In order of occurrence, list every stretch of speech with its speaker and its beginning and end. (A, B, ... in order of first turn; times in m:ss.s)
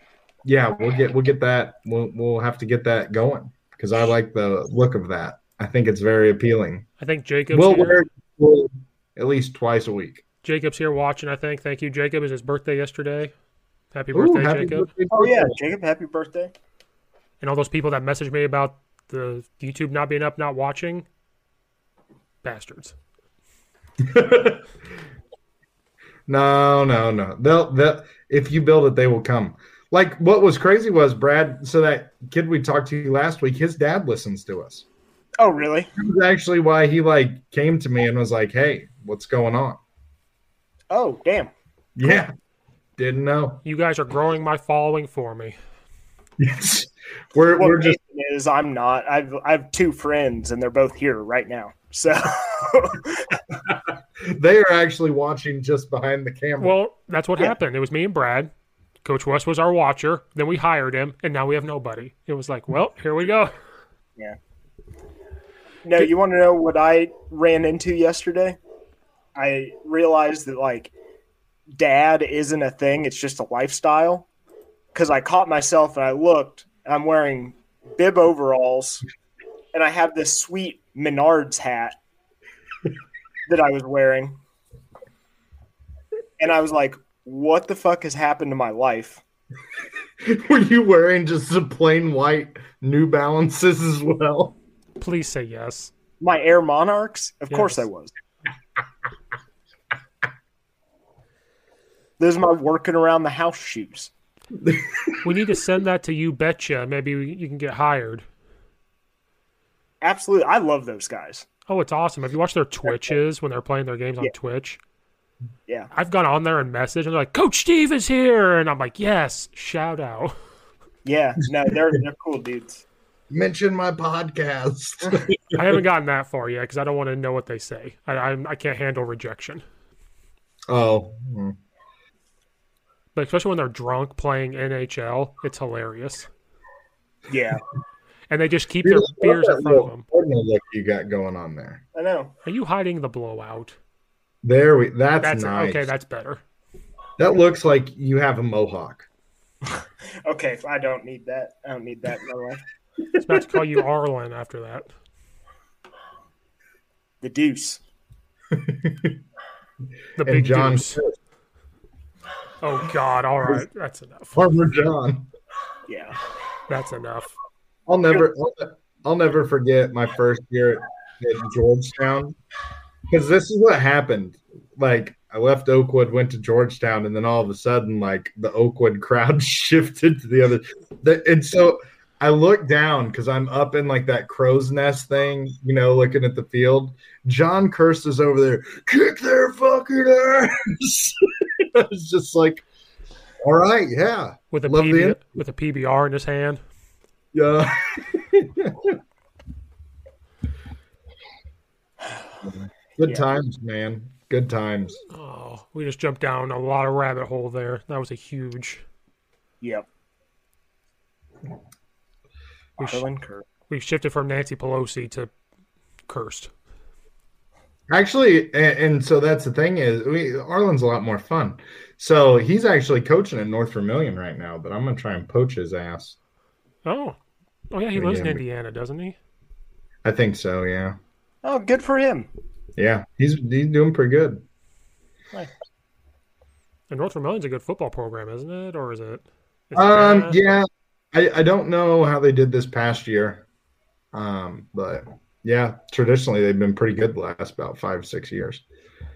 0:00.4-0:06.8 A
0:07.0-0:08.0 B
0:07.5-0:10.2 A
0:10.4-0:13.3 B
0:13.9-0:14.9 B
0:14.1-0:15.5 A
0:15.1-0:16.5 C
0:17.4-0:21.0 B
0:22.4-0:22.9 B
0:24.0-0:24.6 A
0:26.3-0:34.8 A
0:35.4-0:35.9 C
0:36.0-0:39.8 A
0:40.9-0:41.5 C
0:42.0-0:42.3 A
0:43.0-0:43.6 A
0:43.6-0:45.6 B
0:46.4-0:48.0 A
0:47.5-0:53.4 C
0:53.7-0:56.8 A
0:56.6-0:58.5 B
0:59.0-1:03.5 B
1:05.8-1:08.6 C
1:09.3-1:10.9 C
1:11.7-1:14.3 C
1:14.9-1:19.0 C
1:19.7-1:21.9 C
1:23.5-1:24.4 C
1:26.4-1:29.2 C
1:30.2-1:34.6 A
1:35.0-1:35.9 B
1:36.2-1:38.1 C
1:37.5-1:37.8 B
1:42.2-1:44.1 C
1:44.6-1:45.2 A
1:45.2-1:48.2 B
1:50.0-1:51.4 C
1:51.7-1:54.8 B
1:55.9-2:00.3 B
2:01.0-2:02.8 C
2:03.3-2:05.7 A
2:05.5-2:09.6 B
2:10.7-2:11.6 A
2:13.1-2:16.3 B
2:17.3-2:17.6 C
2:18.3-2:20.0 B
2:18.8-2:21.8 A
2:21.9-2:22.3 C
2:22.4-2:23.8 B
2:24.4-2:25.9 A
2:25.2-2:26.4 B
2:27.2-2:29.1 A
2:29.6-2:32.6 C
2:33.2-2:34.9 B
2:37.2-2:37.8 C
2:38.5-2:39.2 A
2:40.2-2:41.0 B
2:40.2-2:41.2 A
2:42.6-2:44.4 B
2:44.3-2:45.3 A
2:45.9-2:46.2 C
2:46.7-2:47.3 B
2:47.9-2:52.3 A
2:53.1-3:12.6 A
3:13.4-3:15.2 A
3:14.5-3:16.6 B
3:17.3-3:19.0 A
3:22.4-3:25.0 A
3:25.1-3:28.8 B
3:29.6-3:29.8 C
3:32.8-3:33.0 B
3:32.8-3:33.4 C
3:33.7-3:35.3 B
3:36.1-3:36.5 B
3:37.9-3:46.2 A
3:46.8-3:47.2 B
3:47.7-3:49.2 B
3:47.9-3:48.4 A
3:50.0-3:51.0 A
3:51.4-3:52.3 C
3:52.8-3:54.4 A
3:56.9-4:00.4 B
3:59.7-4:03.4 A
4:04.1-4:08.6 A